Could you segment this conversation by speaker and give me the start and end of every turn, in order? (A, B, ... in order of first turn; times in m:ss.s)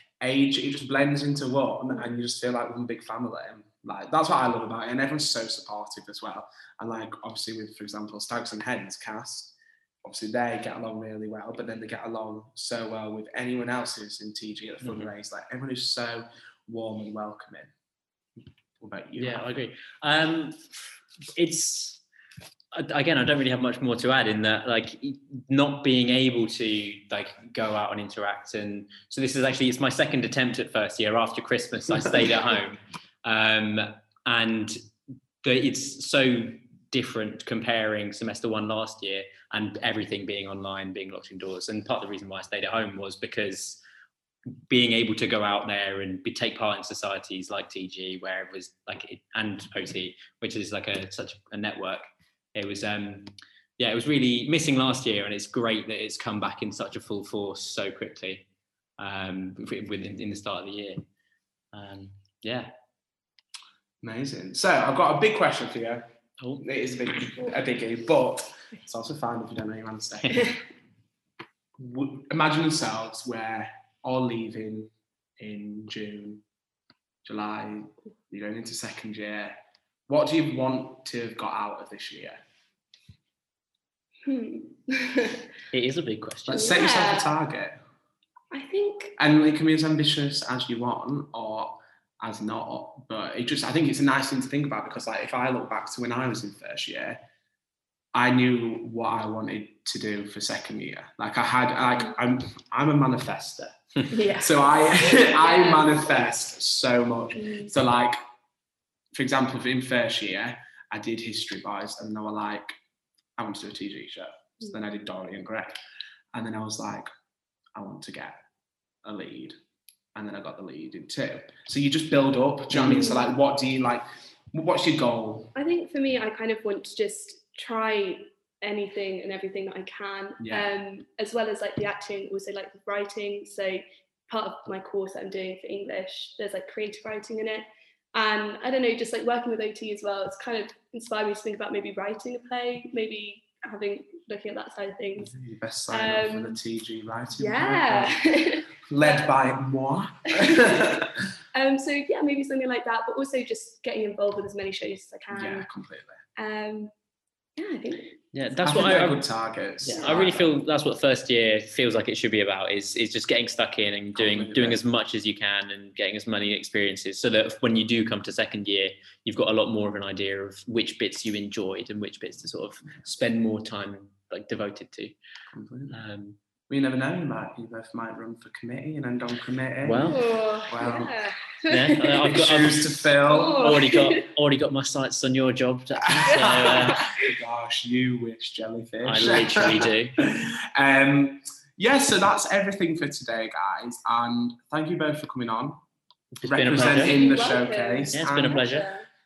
0:00.2-0:17.7 A
0:14.8-0:15.1 B
0:18.8-0:19.6 A
0:19.2-0:20.6 B
0:21.4-0:22.0 B
0:22.7-0:34.7 B
0:35.4-0:43.8 B
0:44.7-0:52.0 B
0:52.5-0:58.4 B
0:59.0-1:01.0 B
1:01.7-1:02.7 B
1:04.0-1:06.1 A
1:06.6-1:10.6 A
1:10.2-1:10.5 B
1:11.8-1:16.4 A
1:17.2-1:19.5 A
1:20.1-1:22.4 A
1:24.2-1:25.4 C
1:25.7-1:26.7 B
1:26.5-1:27.7 A
1:26.5-1:27.3 C
1:28.5-1:29.1 C
1:29.2-1:37.2 A
1:38.1-1:48.2 A
1:44.1-1:46.1 C
1:47.3-1:47.7 C
1:49.1-1:52.7 A
1:53.4-1:55.8 A
1:56.3-1:57.1 A
1:57.7-1:58.4 A
1:59.0-1:59.5 A
2:00.1-2:05.5 A
2:02.8-2:03.3 C
2:05.5-2:25.3 C
2:10.4-2:10.7 A
2:25.2-2:28.2 A
2:25.9-2:26.6 C
2:27.3-2:29.3 C
2:28.9-2:31.1 A
2:30.4-2:30.8 C
2:31.5-2:35.7 C
2:35.3-2:36.2 A
2:36.4-2:36.9 C
2:37.6-2:38.2 C
2:38.3-2:39.3 B
2:38.6-2:40.6 A
2:39.8-2:55.1 B
2:44.1-2:44.8 A
2:55.5-2:56.0 A
2:55.9-2:56.4 B
2:56.7-3:01.1 A
2:59.8-3:00.2 B
3:00.1-3:02.1 C
3:01.7-3:07.0 B
3:02.2-3:03.8 A
3:03.3-3:04.2 C
3:06.2-3:15.8 A
3:06.3-3:06.8 C
3:09.0-3:10.2 B
3:16.4-3:17.2 B
3:16.4-3:18.6 A
3:16.9-3:19.1 C
3:18.1-3:18.9 B